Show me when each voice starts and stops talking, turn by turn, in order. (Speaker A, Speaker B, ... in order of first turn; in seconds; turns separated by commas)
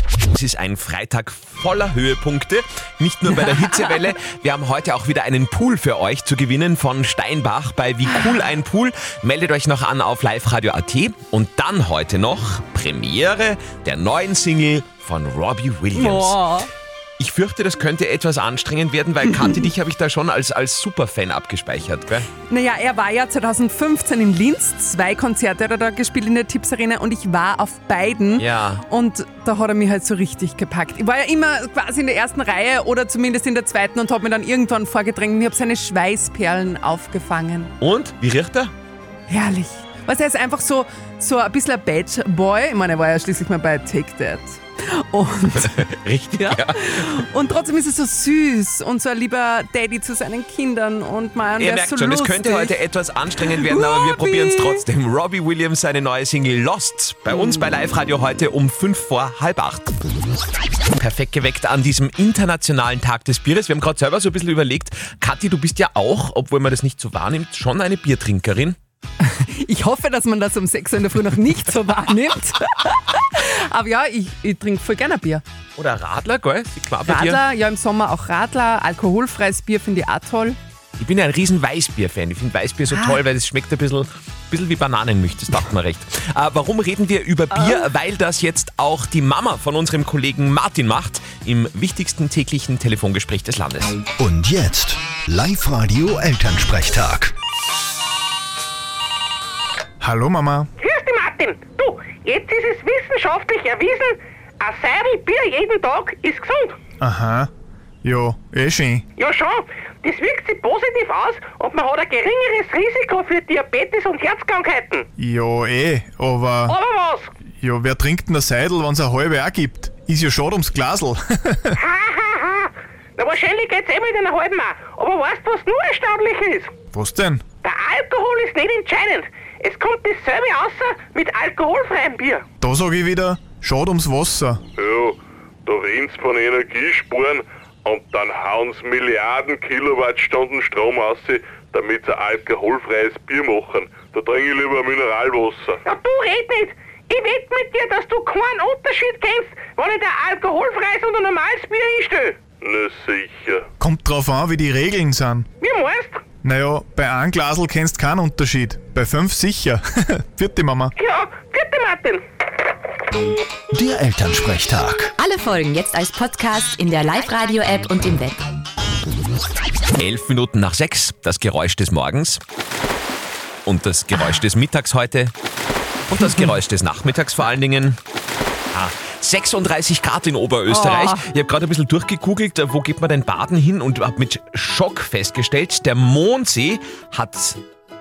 Speaker A: 0.3-16.4, Speaker B: 15.9-16.7, Speaker A: 17.2-22.3, Speaker B: 22.5-37.7, Speaker A: 28.4-28.8, Speaker A: 37.8-38.7, Speaker B: 39.3-45.9, Speaker A: 45.6-46.8, Speaker B: 46.4-52.8, Speaker A: 51.6-59.9, Speaker B: 53.4-54.9, Speaker B: 57.3-57.6, Speaker A: 61.0-68.8, Speaker B: 69.2-75.4, Speaker A: 75.8-77.4, Speaker B: 77.0-80.6, Speaker A: 81.0-94.0, Speaker B: 82.9-83.2, Speaker B: 87.5-87.9, Speaker C: 94.2-97.3, Speaker D: 100.0-100.7, Speaker E: 100.8-106.8, Speaker D: 107.0-107.5, Speaker D: 108.0-109.1, Speaker E: 109.2-115.1, Speaker D: 115.2-116.8, Speaker E: 116.7-117.3, Speaker D: 117.6-121.8, Speaker E: 121.8-126.7, Speaker D: 126.9-127.4, Speaker E: 127.6-132.4, Speaker D: 132.6-134.6, Speaker F: 134.8-145.8, Speaker E: 145.8-152.4, Speaker F: 152.6-153.6, Speaker D: 153.8-155.5, Speaker E: 155.6-156.2, Speaker D: 156.4-160.9, Speaker E: 161.0-162.2, Speaker C: 163.7-165.1, Speaker G: 165.2-168.4, Speaker A: 170.0-172.4, Speaker A: 173.7-175.3, Speaker A: 176.1-178.0, Speaker A: 178.7-187.6, Speaker B: 180.7-181.3